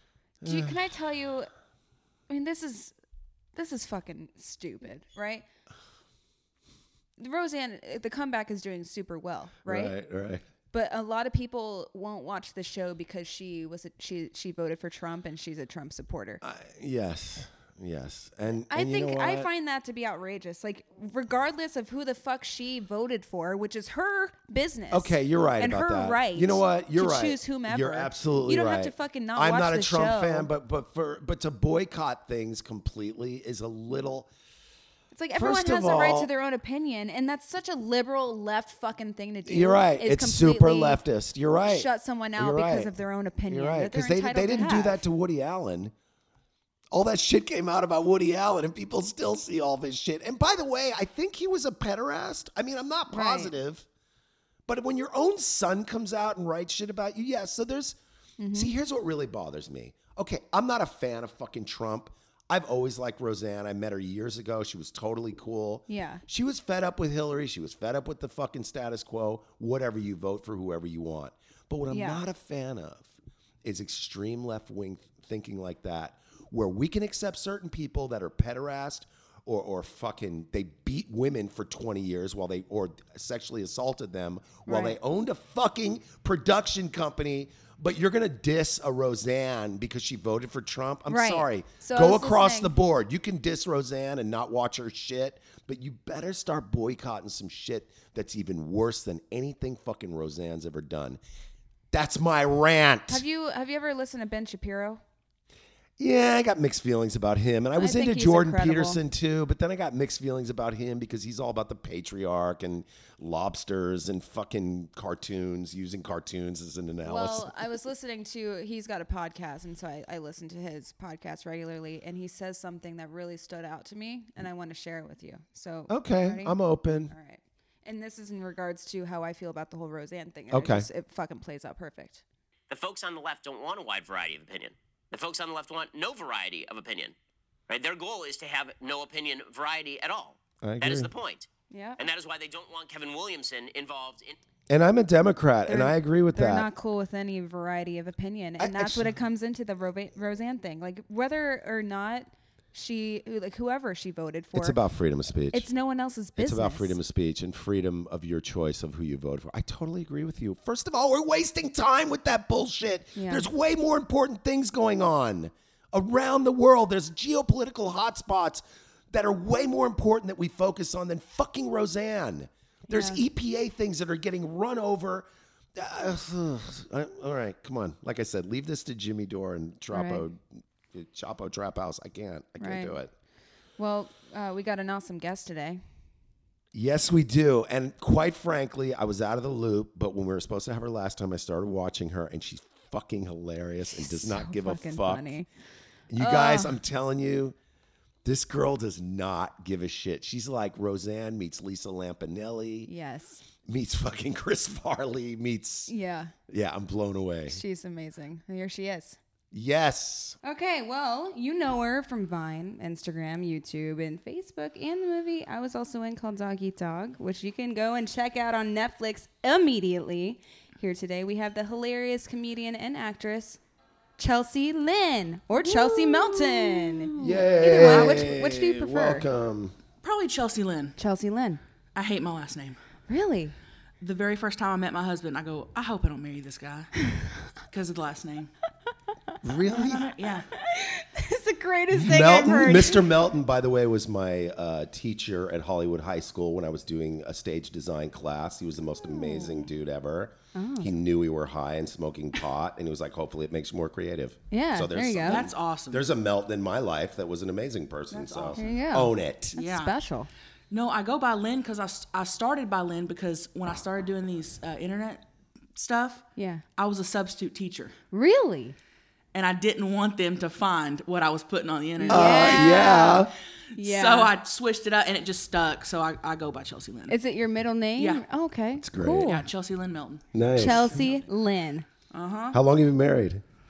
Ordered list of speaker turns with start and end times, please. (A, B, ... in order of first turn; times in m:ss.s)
0:00.4-0:00.8 A
0:00.4-0:01.5 B
0:02.3-0:02.9 B
0:03.6-0:05.5 B
0:07.2-0:10.0 B
0:09.6-0:10.4 A
0:10.7-0:16.4 B
0:16.4-0:19.5 A
0:18.7-0:30.5 B
0:24.9-0:34.3 A
0:35.1-0:41.0 B
0:35.4-0:36.3 A
0:39.5-0:42.9 A
0:41.7-0:45.0 B
0:43.5-0:45.9 A
0:46.9-0:53.9 A
0:53.1-0:53.5 B
0:54.7-0:58.0 A
0:58.4-0:58.7 B
0:58.5-1:13.1 A
1:05.9-1:06.2 B
1:11.9-1:12.2 B
1:13.6-1:41.2 A
1:24.7-1:25.0 B
1:31.1-1:32.7 B
1:41.9-1:43.2 A
1:43.1-1:45.0 B
1:46.0-1:57.6 A
1:47.8-1:49.0 B
1:57.0-2:06.6 B
2:05.9-2:07.1 A
2:07.1-2:12.2 B
2:10.5-2:10.9 A
2:12.7-2:17.1 C
2:17.7-2:24.4 C
2:20.6-2:21.1 A
2:21.7-2:22.0 B
2:24.7-2:26.7 A
2:25.7-2:34.8 B
2:28.6-2:29.1 A
2:34.6-2:35.7 A
2:35.5-2:37.0 B
2:36.4-3:03.1 A
2:43.2-2:43.5 B
2:52.9-2:53.2 B
2:59.9-3:00.2 B
3:02.6-3:03.0 B
3:03.8-3:05.8 B
3:06.7-3:15.3 A
3:13.9-3:15.5 B
3:16.1-3:17.6 A
3:16.2-3:16.8 B
3:18.2-3:22.9 A
3:22.9-3:23.4 B
3:23.6-3:25.9 A
3:25.9-3:26.3 B
3:26.5-3:27.6 A
3:27.5-3:29.2 B
3:29.5-3:30.4 A
3:30.4-3:43.6 B
3:44.2-3:49.3 B
3:45.8-3:48.3 D
3:47.2-3:49.8 A
3:50.0-3:51.0 D
3:51.0-3:51.6 B
3:52.0-3:52.8 D
3:53.1-3:53.6 B
3:54.0-3:56.9 D
3:57.7-3:58.5 D
3:59.4-4:00.1 A
3:59.7-4:00.5 D
4:00.5-4:03.1 B
4:01.9-4:19.6 A
4:09.1-4:09.7 B
4:10.5-4:10.9 B
4:14.5-4:15.5 B
4:15.2-4:16.0 D
4:18.1-4:18.8 D
4:18.6-4:20.3 B
4:19.6-4:20.0 D
4:20.7-4:25.2 D
4:25.8-4:26.2 D
4:26.4-4:26.6 B
4:26.8-4:27.9 D
4:28.1-4:28.8 B
4:29.3-4:33.2 D
4:32.0-4:34.3 B
4:32.1-4:33.3 A
4:33.7-4:37.2 D
4:37.1-4:39.5 B
4:38.0-4:38.2 D
4:38.8-4:39.3 A
4:39.2-4:41.2 D
4:40.3-4:41.0 A
4:40.6-4:41.9 B
4:42.1-4:42.6 D
4:42.5-4:43.4 A